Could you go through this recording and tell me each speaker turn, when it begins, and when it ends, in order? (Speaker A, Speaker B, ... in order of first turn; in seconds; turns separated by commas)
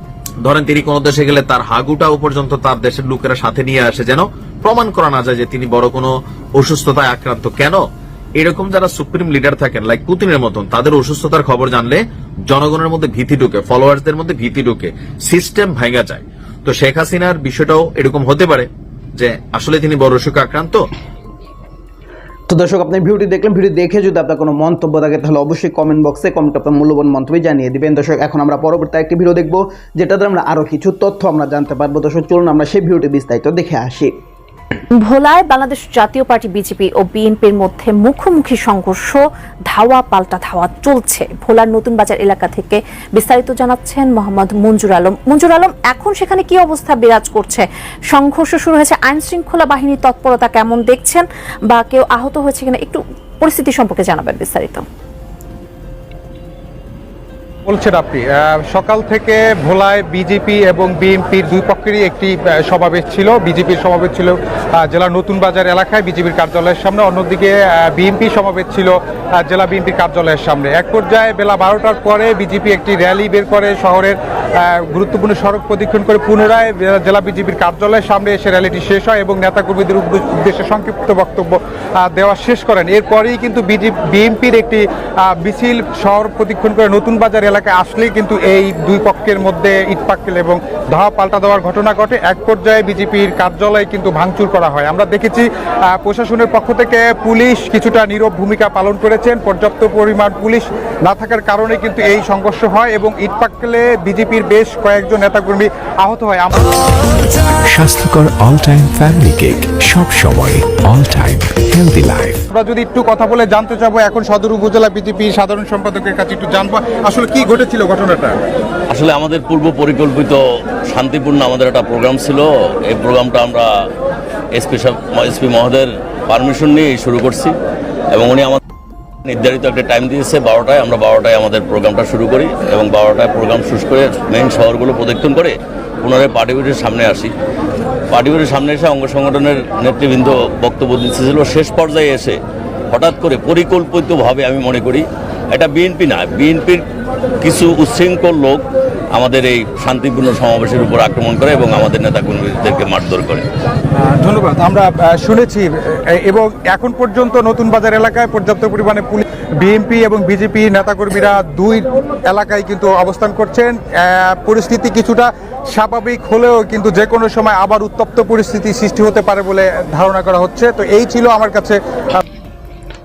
Speaker A: 0.4-7.8, Speaker A: 8.4-20.9, Speaker B: 22.5-34.1, Speaker C: 35.0-54.9, Speaker D: 57.7-106.7, Speaker E: 107.6-112.4, Speaker D: 112.5-118.4, Speaker F: 118.9-123.7, Speaker F: 124.5-127.5, Speaker F: 128.1-128.6, Speaker F: 129.2-137.3, Speaker F: 138.1-142.4, Speaker F: 142.9-146.8, Speaker F: 147.4-153.4, Speaker D: 154.0-172.2